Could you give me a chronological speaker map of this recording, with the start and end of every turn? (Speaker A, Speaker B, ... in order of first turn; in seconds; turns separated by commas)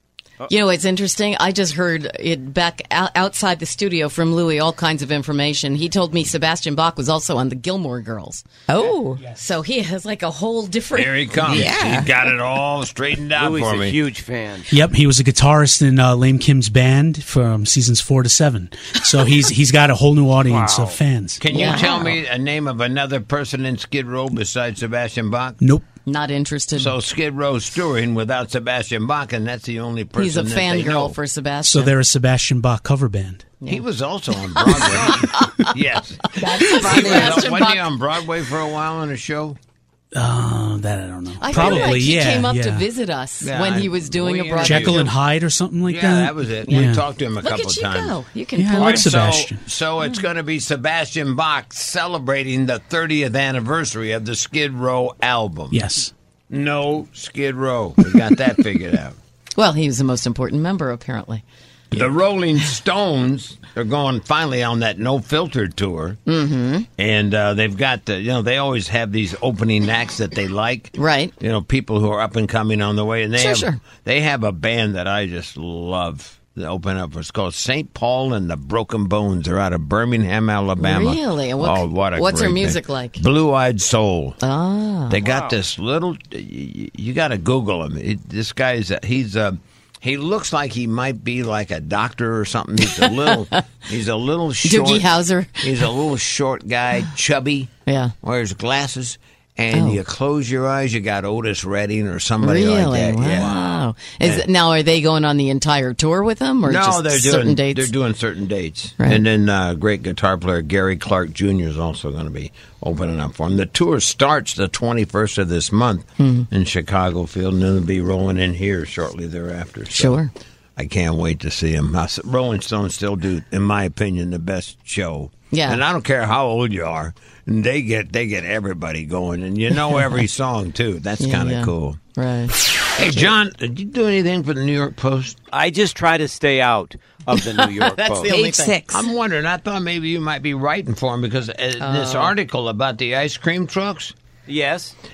Speaker A: 0.5-8.5, Speaker B: 8.7-9.2, Speaker A: 9.3-11.7, Speaker C: 10.9-14.1, Speaker B: 11.4-12.1, Speaker D: 13.4-14.7, Speaker E: 14.7-22.1, Speaker D: 20.5-20.9, Speaker C: 21.4-25.6, Speaker A: 21.5-22.0, Speaker E: 25.6-25.9, Speaker A: 26.1-26.9, Speaker C: 26.7-31.1, Speaker A: 30.1-31.9, Speaker E: 31.6-33.5, Speaker C: 33.7-39.6, Speaker A: 35.0-35.5, Speaker B: 36.4-37.5, Speaker A: 36.6-37.9, Speaker E: 40.1-42.8, Speaker A: 41.4-45.1, Speaker C: 43.4-45.0, Speaker E: 44.6-47.0, Speaker C: 45.8-48.2, Speaker A: 47.4-49.1, Speaker E: 48.5-49.7, Speaker C: 48.8-55.8, Speaker E: 55.7-56.1, Speaker C: 56.5-59.2, Speaker A: 59.5-61.4, Speaker C: 61.9-66.2, Speaker A: 66.3-66.9, Speaker C: 67.0-84.4, Speaker A: 70.9-71.3, Speaker A: 73.4-73.8, Speaker A: 80.8-83.2, Speaker A: 84.4-85.2, Speaker C: 85.1-97.7, Speaker D: 85.2-85.5, Speaker A: 92.8-93.6, Speaker A: 94.6-95.9, Speaker A: 97.8-98.1, Speaker C: 98.2-104.4, Speaker A: 99.7-100.0, Speaker A: 102.4-107.9, Speaker C: 106.6-120.2, Speaker A: 116.2-116.5, Speaker A: 119.9-120.3, Speaker C: 120.8-132.0, Speaker A: 125.5-125.8, Speaker A: 131.2-132.6, Speaker C: 132.8-135.4, Speaker D: 135.5-138.3, Speaker A: 137.3-138.8, Speaker B: 138.3-139.1, Speaker C: 138.9-144.1, Speaker A: 141.8-142.3, Speaker D: 144.5-144.9